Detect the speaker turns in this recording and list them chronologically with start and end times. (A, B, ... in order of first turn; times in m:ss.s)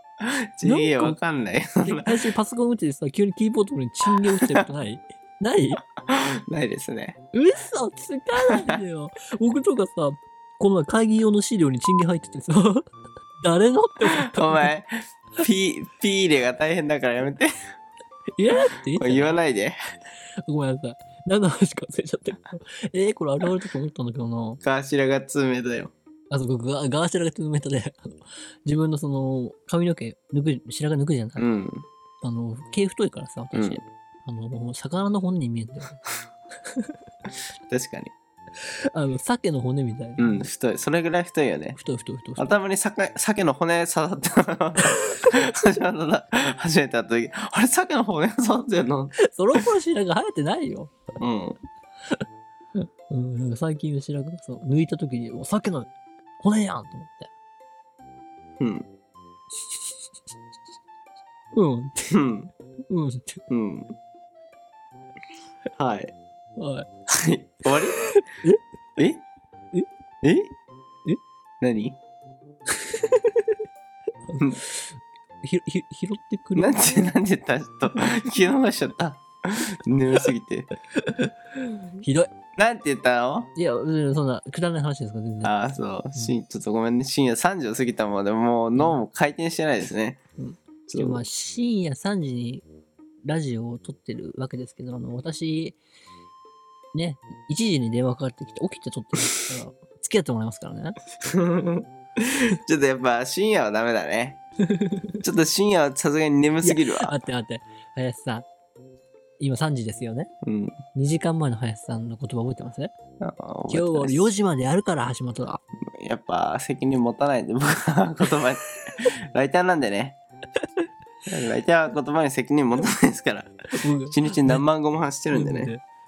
0:00.2-0:02.2 A
0:00.6-0:01.2 B
0:01.8-0:05.8 B
0:04.3-0:04.6 A
0:06.0-0:07.2 A
0:07.3-0:12.8 B
0:08.5-0:08.7 A
0:13.4-0:14.7 B
0:14.1-0:17.5 A
0:18.4-0:19.4 B
0:18.9-0:19.8 A
0:20.4-0:24.6 B
0:24.6-0:25.9 A
0:26.3-0:31.5 B
0:31.4-0:31.9 A
0:32.2-0:36.0 B
0:33.5-0:33.8 A
0:36.7-0:36.9 B
0:37.7-0:38.1 A
0:38.9-0:40.4 B
0:40.2-0:41.8 A
0:41.7-0:42.5 B
0:42.4-0:49.1 A
0:44.8-0:45.2 B
0:49.2-0:51.0 B
0:51.2-0:51.6 A
0:52.7-0:57.3 B
0:58.6-0:58.9 A
1:01.5-1:02.3 B
1:02.1-1:02.5 A
1:02.9-1:03.4 B
1:03.5-1:03.9 A
1:05.7-1:06.1 A
1:06.6-1:06.9 B
1:07.1-1:08.0 A
1:08.0-1:08.6 B
1:09.0-1:09.2 A
1:10.2-1:10.5 A
1:11.6-1:12.0 A
1:12.8-1:13.5 B
1:14.3-1:17.1 B
1:16.6-1:20.7 A
1:21.0-1:22.3 B
1:22.6-1:23.5 A
1:23.5-1:25.5 B
1:25.4-1:30.2 A
1:30.4-1:32.6 B
1:30.9-1:31.2 A
1:33.2-1:35.8 B
1:36.9-1:41.0 B
1:41.2-1:44.4 A
1:44.7-1:45.1 B
1:45.2-1:47.1 A
1:46.6-1:48.5 B
1:49.4-1:50.3 B
1:50.4-1:50.8 A
1:50.9-1:52.9 B
1:53.2-1:54.3 A
1:53.7-1:55.6 B
1:56.0-2:00.2 A
2:01.3-2:03.5 A
2:03.7-2:04.6 B
2:04.1-2:05.7 A
2:05.3-2:05.8 B